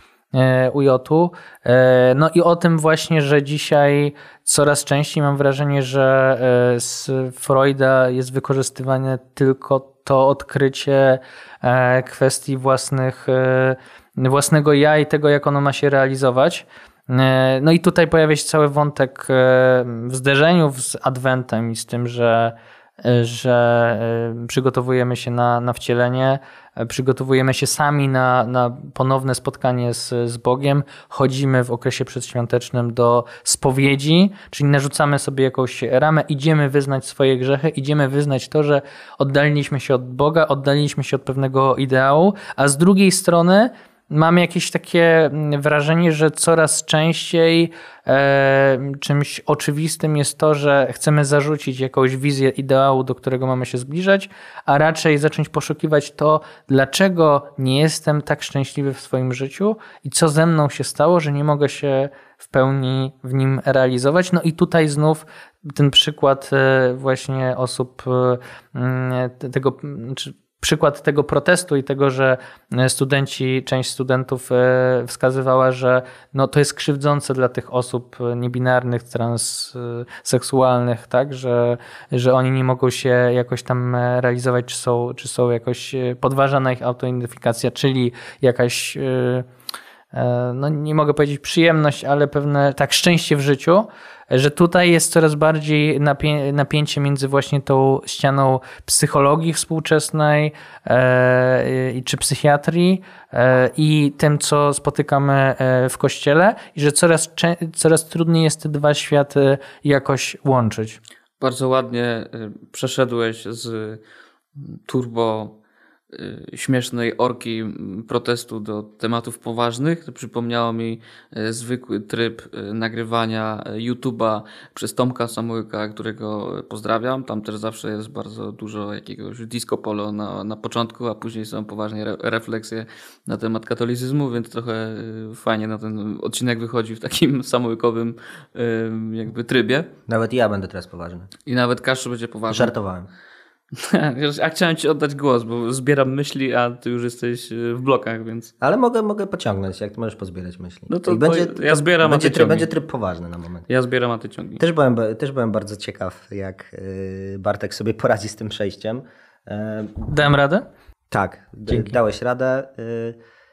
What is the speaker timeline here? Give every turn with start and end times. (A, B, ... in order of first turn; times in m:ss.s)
0:00.3-1:29.5 A
1:30.1-1:51.0 A
1:51.4-1:54.0 B
1:54.6-1:55.5 B
1:56.1-2:19.9 B
2:20.1-2:21.3 C
2:21.5-2:22.7 B
2:22.5-2:23.1 C
2:23.8-2:28.5 B
2:28.6-2:33.6 C
2:30.9-2:32.7 B
2:33.7-2:34.6 B
2:34.6-2:40.3 C
2:40.1-2:40.6 A
2:41.1-2:43.2 C
2:41.7-2:42.0 A